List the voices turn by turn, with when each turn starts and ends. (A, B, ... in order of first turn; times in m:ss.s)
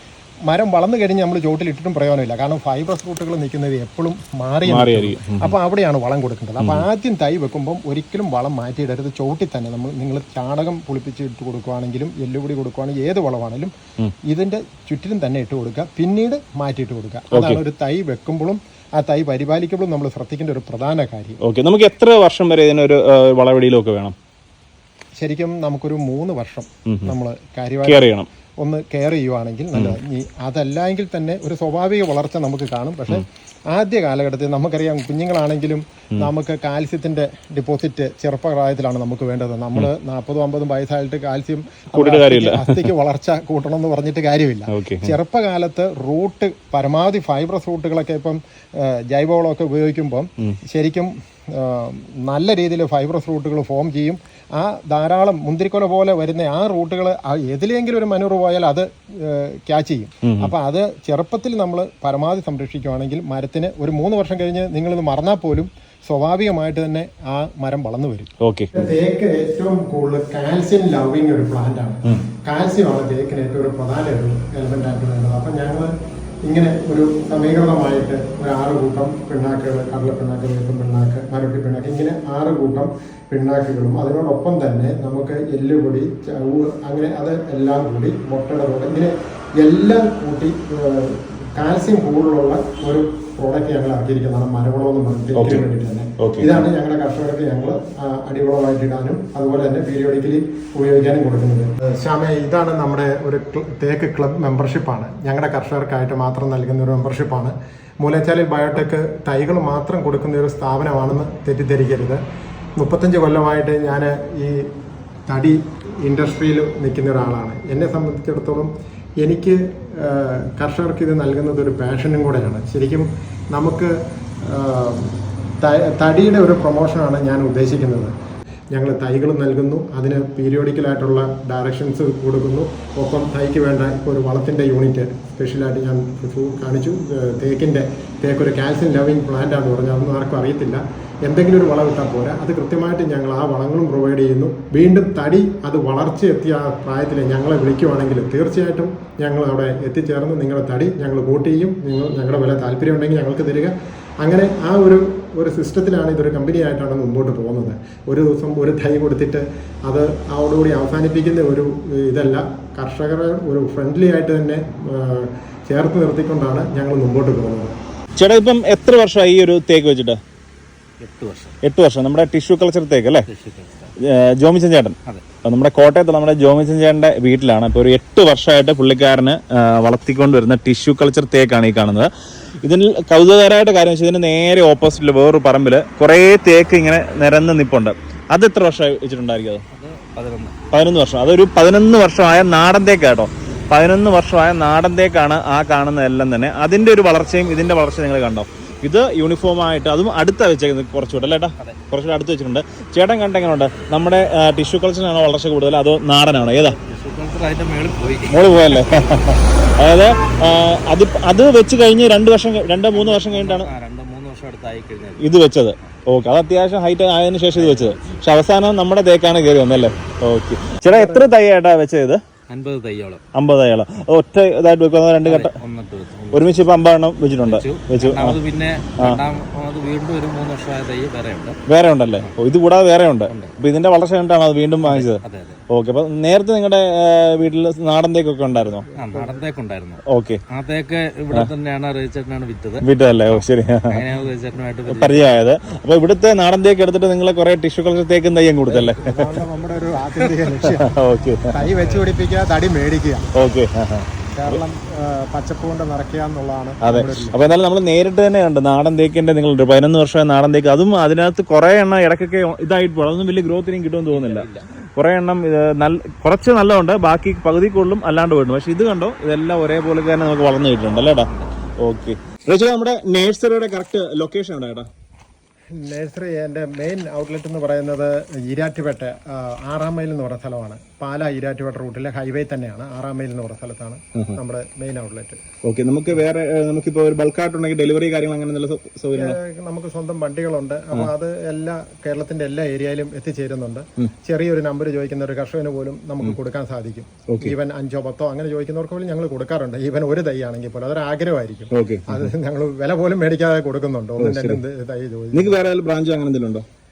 0:00.4-0:13.7 A
0:04.6-0:05.5 B
0:06.6-0:06.8 B
0:14.3-0:21.4 A
0:17.3-0:17.6 B
0:21.4-0:24.1 B
0:25.2-0:28.1 A
0:26.9-0:27.1 B
0:27.8-0:28.3 B
0:28.6-1:15.9 A
0:41.9-0:42.9 B
0:44.7-0:45.1 B
1:00.2-1:00.5 B
1:08.4-1:08.8 B
1:16.4-1:52.2 A
1:35.3-1:35.7 B
1:36.2-1:36.6 B
1:52.8-1:54.7 A
1:55.3-1:58.7 A
1:59.2-2:08.1 A
2:08.7-2:47.7 A
2:48.2-2:50.2 B
2:51.0-2:51.6 C
2:51.6-2:53.3 B
2:53.3-2:53.9 C
2:54.0-3:02.1 B
3:02.6-3:09.6 B
3:09.7-3:10.6 C
3:10.7-3:26.8 B
3:26.6-3:29.2 C
3:28.3-3:33.7 B
3:32.9-3:35.3 C
3:35.2-3:42.2 B
3:37.5-3:38.2 C
3:40.8-3:41.3 A
3:42.5-3:43.2 C
3:43.3-3:45.5 B
3:45.2-3:46.7 C
3:46.3-3:48.4 B
3:47.4-3:51.6 C
3:51.7-3:58.9 B
3:53.3-3:53.5 C
3:54.8-3:55.6 C
3:58.9-3:59.5 A
3:58.9-4:05.2 C
4:00.0-4:00.4 B
4:02.8-4:04.0 B
4:04.9-4:09.3 B
4:08.9-4:10.9 A
4:10.6-4:11.5 B
4:11.5-4:13.3 A
4:13.3-4:14.6 B
4:14.3-4:17.4 A
4:16.8-4:31.3 B
4:24.1-4:24.7 C
4:31.2-4:31.5 C
4:31.8-4:34.9 B
4:35.7-4:45.4 A
4:45.6-4:49.4 B
4:49.2-5:05.6 A
4:57.3-4:57.5 B
5:01.7-5:02.3 B
5:04.2-5:04.6 B
5:05.3-5:06.6 B